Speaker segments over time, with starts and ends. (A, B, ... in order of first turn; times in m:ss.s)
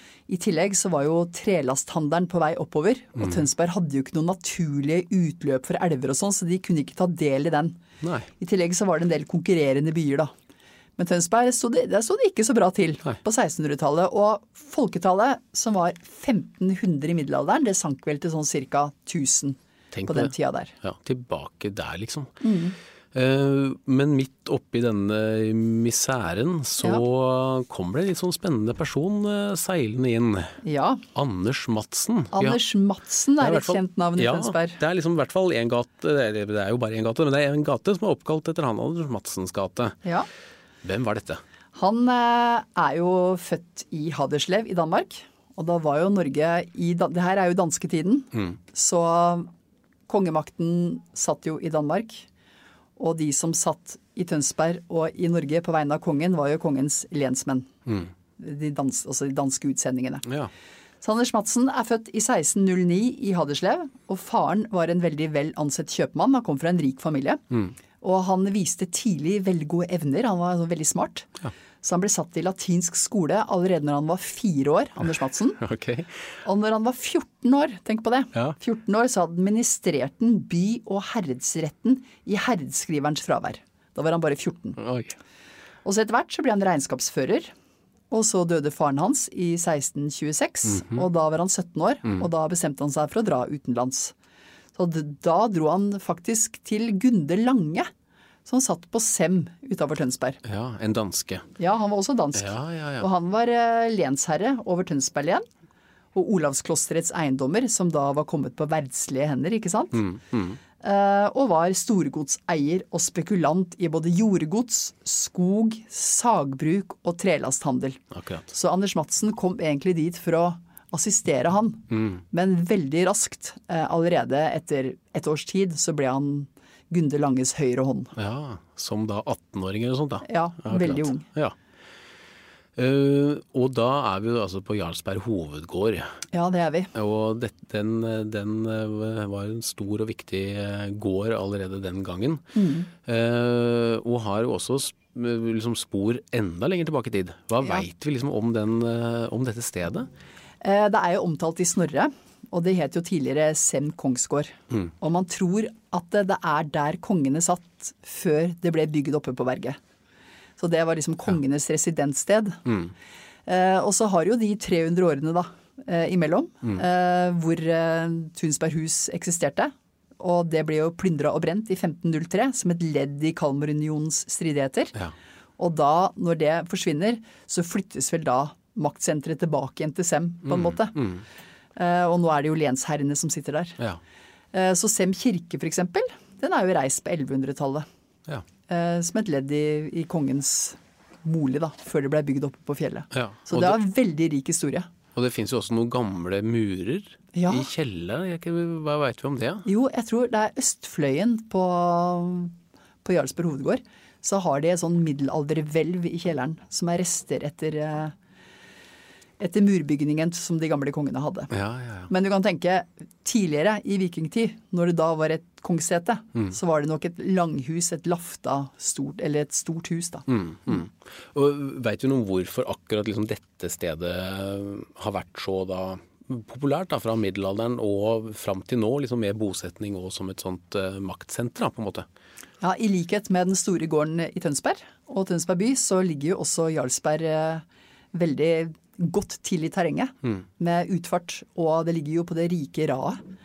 0:00.3-0:07.8 A
0:08.0-0:08.3 B
0:08.4-0:10.3 A
0:11.0-0:19.6 A
0:19.9-0:22.3 B
0:20.1-0:20.7 A
0:22.4-0:22.8 A
0:23.1-0:30.5 B
0:30.6-0:31.0 A
0:31.1-0:32.6 B
0:32.3-0:34.8 A
0:33.4-0:40.0 B
0:40.8-0:41.4 B
0:41.7-0:49.5 A
0:50.1-0:52.3 A
0:53.0-0:57.7 A
0:58.4-1:00.3 A
1:00.3-1:00.5 B
1:01.0-1:07.4 A
1:08.0-1:11.3 A
1:11.8-1:15.6 A
1:15.6-1:16.1 B
1:16.4-1:24.8 A
1:24.8-1:25.2 B
1:25.8-1:27.5 A
1:28.1-1:34.1 A
1:30.8-1:31.0 B
1:34.8-1:37.9 A
1:38.5-1:40.4 A
1:40.5-1:41.4 B
1:41.6-1:45.4 A
1:42.4-1:43.1 B
1:46.1-1:50.0 A
1:49.9-1:50.6 B
1:50.8-2:08.1 A
1:58.2-1:58.5 B
2:01.9-2:02.2 B
2:08.2-2:11.6 B
2:10.2-2:11.3 A
2:12.8-2:16.0 B
2:16.3-2:16.9 A
2:16.9-2:22.4 B
2:22.6-2:22.9 A
2:23.0-2:30.1 B
2:30.6-2:39.8 A
2:40.6-2:42.6 A
2:43.5-2:54.9 A
2:55.6-3:01.0 A
3:00.5-3:01.2 B
3:01.8-3:03.8 A
3:04.5-3:07.8 A
3:08.7-3:14.9 A
3:13.1-3:13.8 B
3:15.2-3:19.7 B
3:17.3-3:17.7 A
3:19.6-3:22.5 A
3:23.0-3:28.1 A
3:29.4-3:31.5 A
3:31.5-3:32.1 B
3:32.1-3:40.3 A
3:40.3-3:52.0 B
3:52.6-4:03.2 A